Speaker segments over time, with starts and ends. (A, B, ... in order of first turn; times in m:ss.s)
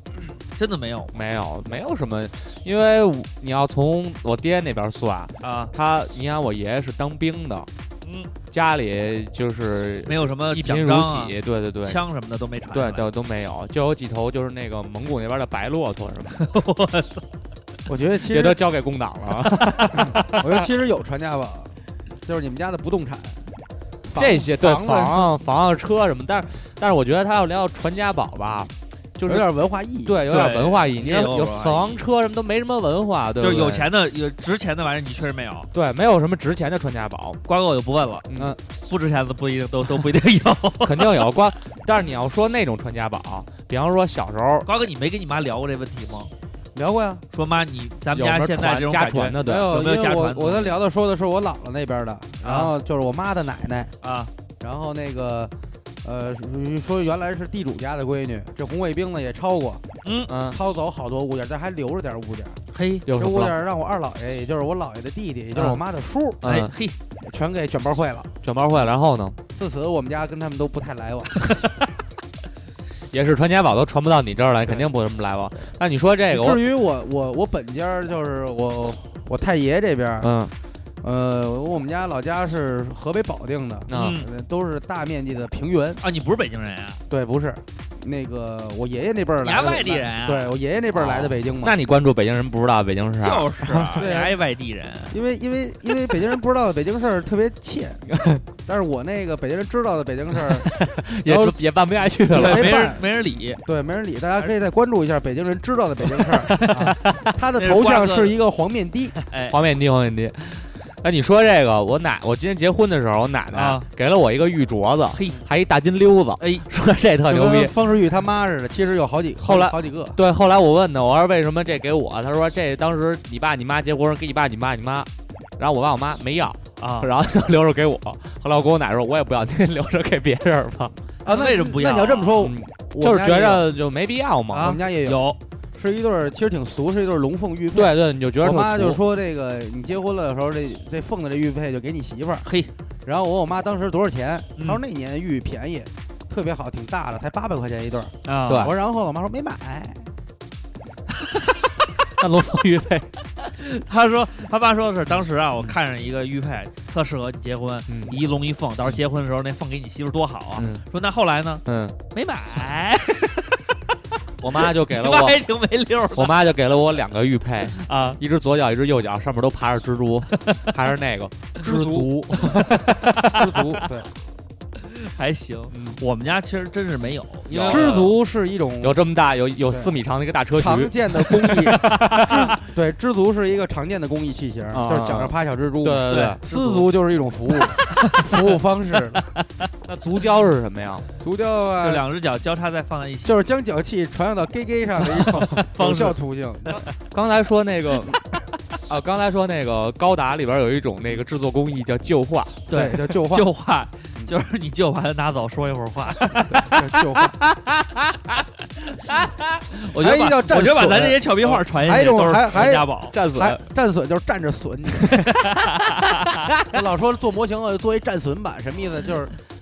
0:00.6-0:01.1 A
0:01.1-0:07.7 B
0:05.4-0:05.7 A
0:08.0-0:08.3 A
0:08.5-0:12.0 B
0:10.1-0:13.0 A
0:12.7-0:16.4 B
0:16.4-0:17.3 A
0:17.9-0:18.6 C
0:18.2-0:20.7 B
0:20.1-0:23.4 C
0:24.0-0:25.3 C
0:24.2-0:29.5 B
0:29.2-0:30.2 C
0:30.0-0:33.9 B
0:30.2-0:32.0 A
0:33.4-0:35.7 A
0:35.7-0:37.4 B
0:37.4-0:38.3 A
0:38.3-0:38.6 B
0:38.9-0:41.2 A
0:40.8-0:44.7 B
0:44.6-0:46.3 A
0:46.7-0:47.2 C
0:47.3-0:50.8 A
0:48.1-0:49.8 B
0:49.4-0:53.9 C
0:52.4-0:52.7 A
0:54.0-0:54.3 A
0:54.6-0:55.5 C
0:56.0-0:59.8 C
1:00.0-1:00.3 A
1:00.3-1:00.6 B
1:00.5-1:06.4 C
1:02.7-1:03.0 A
1:03.0-1:03.5 B
1:06.4-1:06.7 B
1:06.4-1:07.0 A
1:07.2-1:08.3 C
1:08.4-1:09.4 B
1:09.6-1:11.5 C
1:13.1-1:16.6 B
1:16.3-1:20.3 C
1:20.2-1:20.5 B
1:21.0-1:26.0 C
1:23.9-1:24.2 B
1:23.9-1:24.3 A
1:26.0-1:27.0 A
1:27.1-1:31.8 C
1:29.4-1:30.5 A
1:30.9-1:34.0 B
1:33.2-1:35.2 A
1:34.0-1:34.4 C
1:35.1-1:41.6 C
1:38.1-1:38.4 B
1:40.3-1:42.8 B
1:42.3-1:43.1 C
1:42.3-1:43.6 A
1:43.6-1:49.2 C
1:46.5-1:46.9 A
1:46.9-1:47.2 B
1:47.6-1:48.3 A
1:49.3-1:49.6 A
1:49.5-1:57.8 B
1:53.5-1:53.9 A
1:55.1-1:55.4 A
1:56.4-1:56.7 A
1:57.3-2:00.2 C
1:59.4-2:10.9 B
2:06.8-2:07.1 A
2:11.2-2:13.7 C
2:11.2-2:12.5 A
2:12.4-2:14.8 B
2:14.5-2:15.4 A
2:14.6-2:15.2 C
2:15.7-2:22.5 C
2:17.7-2:19.0 B
2:22.4-2:22.7 A
2:23.0-2:30.1 C
2:28.2-2:28.7 A
2:28.5-2:28.7 B
2:31.3-2:31.6 A
2:32.2-2:33.1 B
2:33.4-2:43.8 A
2:37.9-2:38.1 B
2:40.6-2:40.8 B
2:41.6-2:42.0 B
2:44.4-2:45.4 B
2:44.6-2:46.4 A
2:46.1-2:53.6 B
2:47.7-2:48.2 A
2:50.3-2:50.8 A
2:51.6-2:52.3 C
2:52.3-2:53.5 A
2:53.3-2:54.1 C
2:54.8-2:58.1 A
2:55.7-2:56.0 B
2:57.5-2:58.2 B
2:57.7-2:59.0 C
2:58.8-3:02.5 B
3:00.5-3:09.3 C
3:01.8-3:02.4 A
3:04.7-3:06.4 B
3:06.1-3:06.9 A
3:07.8-3:08.6 A
3:09.3-3:09.7 A
3:09.8-3:11.0 B
3:11.2-3:12.0 C
3:11.8-3:13.3 A
3:13.2-3:16.8 C
3:15.1-3:16.2 A
3:16.9-3:18.2 B
3:18.9-3:22.7 B
3:22.7-3:26.7 A
3:22.7-3:23.5 C
3:26.5-3:27.4 C
3:27.1-3:28.4 B
3:28.9-3:33.1 A
3:30.0-3:35.2 C
3:33.1-3:33.6 B
3:35.1-3:36.6 B
3:35.4-3:36.4 A
3:36.7-3:39.3 C